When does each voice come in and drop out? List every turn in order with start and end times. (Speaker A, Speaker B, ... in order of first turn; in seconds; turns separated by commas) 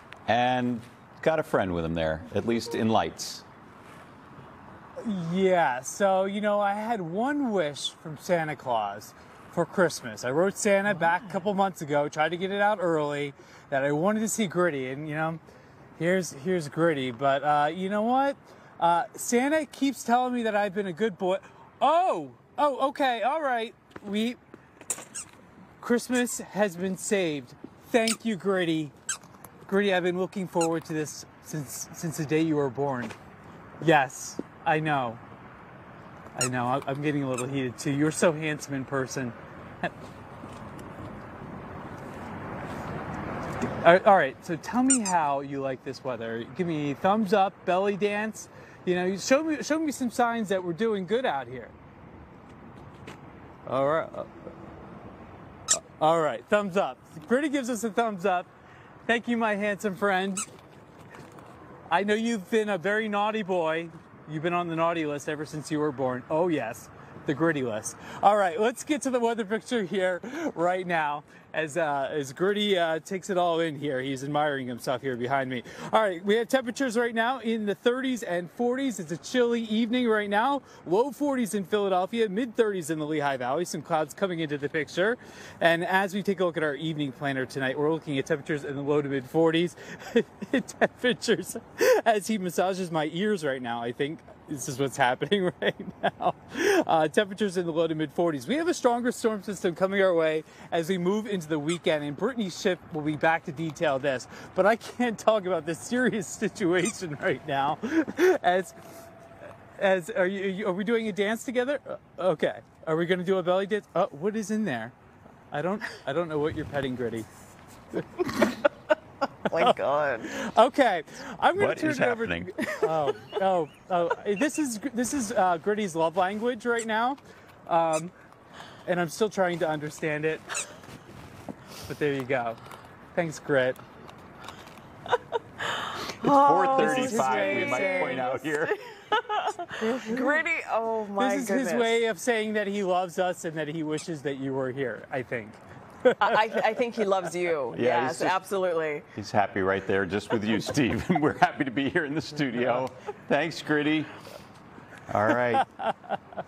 Speaker A: 0.3-3.4, Speaker B: 5.0-15.4, Speaker B: 16.0-24.4, Speaker B: 25.8-28.9, Speaker B: 29.7-33.1, Speaker B: 33.8-35.2, Speaker B: 36.4-39.9, Speaker B: 43.8-51.7, Speaker B: 53.7-54.3, Speaker B: 55.7-58.5, Speaker B: 59.1-60.5, Speaker B: 61.9-108.7, Speaker B: 109.8-114.9, Speaker B: 115.5-117.2, Speaker C: 119.5-120.3, Speaker B: 119.5-128.1, Speaker A: 121.5-122.5, Speaker C: 122.7-123.3, Speaker B: 128.8-130.4, Speaker B: 131.8-132.6, Speaker B: 133.1-133.8, Speaker C: 136.1-142.0, Speaker A: 136.2-138.7, Speaker B: 136.7-138.3, Speaker B: 141.2-146.9, Speaker C: 146.2-149.1, Speaker A: 147.7-148.4, Speaker A: 149.1-154.1, Speaker A: 155.1-155.6, Speaker B: 155.3-156.2